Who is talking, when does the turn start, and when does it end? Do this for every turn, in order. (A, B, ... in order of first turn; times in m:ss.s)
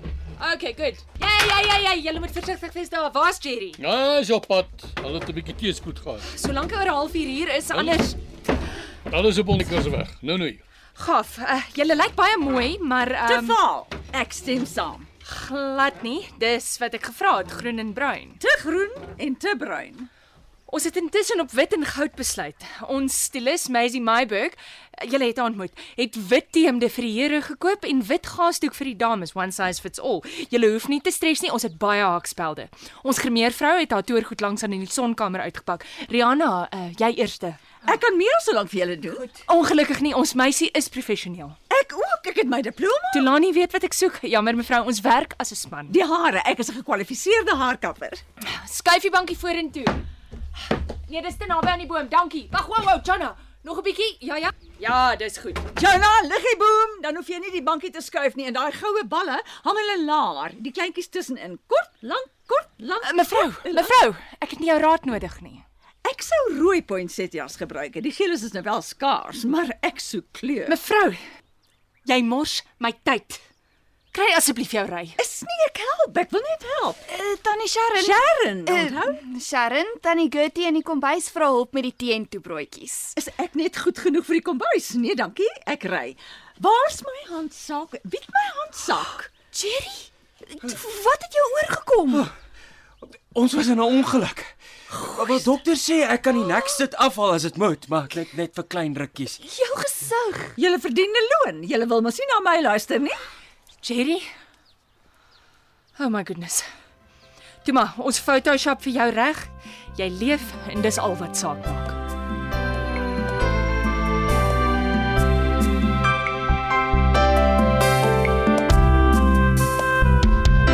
0:00.4-0:03.8 A
0:03.8-0:06.3 B
0:06.2-0:08.2 A
0:07.7-0:08.1 B
0:09.1-0:10.6 B
0:11.0-0:13.6 A
0:13.2-0:15.1 C
0:15.2-0:18.4 A
0:18.4-0:20.1 C
0:20.7-0:37.8 A
0:37.8-0:39.4 C
0:39.3-0:41.6 A
0:41.7-0:43.3 C
0:43.1-0:46.0 A
0:45.9-0:48.2 C
0:48.4-0:50.0 A
0:51.0-0:55.7 A
0:55.7-1:04.0 C
1:03.0-1:05.6 A
1:06.0-1:10.8 C
1:10.6-1:11.2 A
1:12.0-1:13.4 A
1:14.1-1:15.2 A
1:15.2-1:17.0 C
1:17.1-1:18.1 D
1:17.9-1:19.2 C
1:18.6-1:23.1 D
1:23.1-1:29.3 C
1:29.5-1:30.0 D
1:30.6-1:32.2 D
1:33.3-1:39.4 E
1:34.9-1:35.5 C
1:39.7-1:40.5 D
1:40.6-1:43.2 C
1:43.8-1:44.3 A
1:46.0-1:46.6 A
1:47.6-1:52.0 A